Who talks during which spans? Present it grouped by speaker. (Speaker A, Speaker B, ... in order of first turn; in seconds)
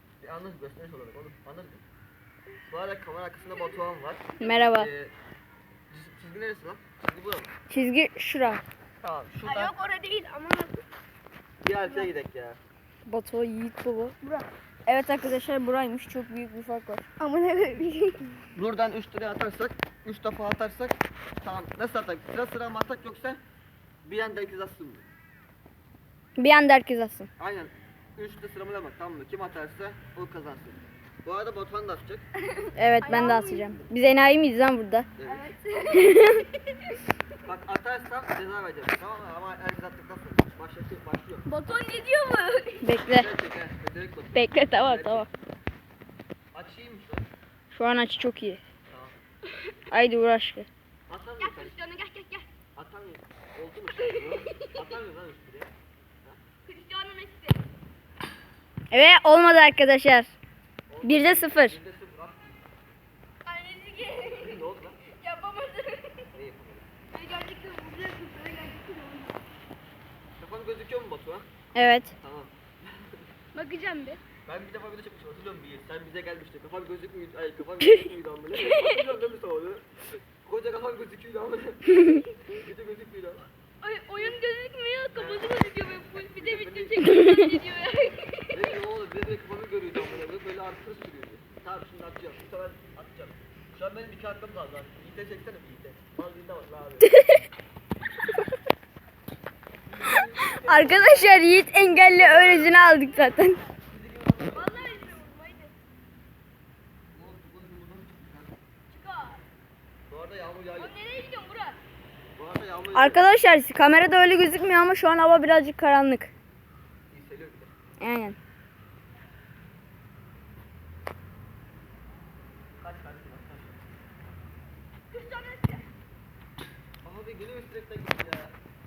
Speaker A: 0.2-1.8, 2.7-5.1, 5.9-7.5, 9.0-9.7, 11.6-12.6, 18.6-23.4, 24.0-25.1, 27.4-32.2, 35.2-35.5, 37.4-41.4, 43.0-45.3, 46.5-47.3, 48.9-49.1, 51.1-51.8, 52.8-55.7, 60.9-62.6, 64.2-65.1, 66.3-66.9, 70.4-71.5, 72.2-73.2, 74.5-83.5, 85.1-87.1, 88.5-97.2, 99.9-102.7, 103.9-105.1, 107.1-108.6, 110.1-111.0, 112.4-113.3, 117.1-117.7, 122.8-123.8, 127.0-128.5
Speaker B: 4.4-4.9, 7.7-8.6, 13.1-14.2, 14.9-17.1, 26.4-27.3, 32.8-35.1, 35.9-36.5, 42.8-43.3, 44.4-45.3, 47.7-48.6, 49.9-50.7, 58.9-60.3, 61.0-61.8, 71.8-72.1, 87.1-87.4, 97.0-97.4, 100.3-103.6, 113.0-116.3, 118.0-118.4
Speaker C: 9.4-10.8, 17.2-18.1, 32.5-33.8, 35.2-36.5, 41.5-42.9, 51.4-52.5, 56.7-57.6, 63.5-64.6, 65.2-66.3, 67.1-69.3, 73.5-74.2, 83.8-88.7, 104.5-105.7, 108.9-109.4, 110.8-111.8, 125.1-125.8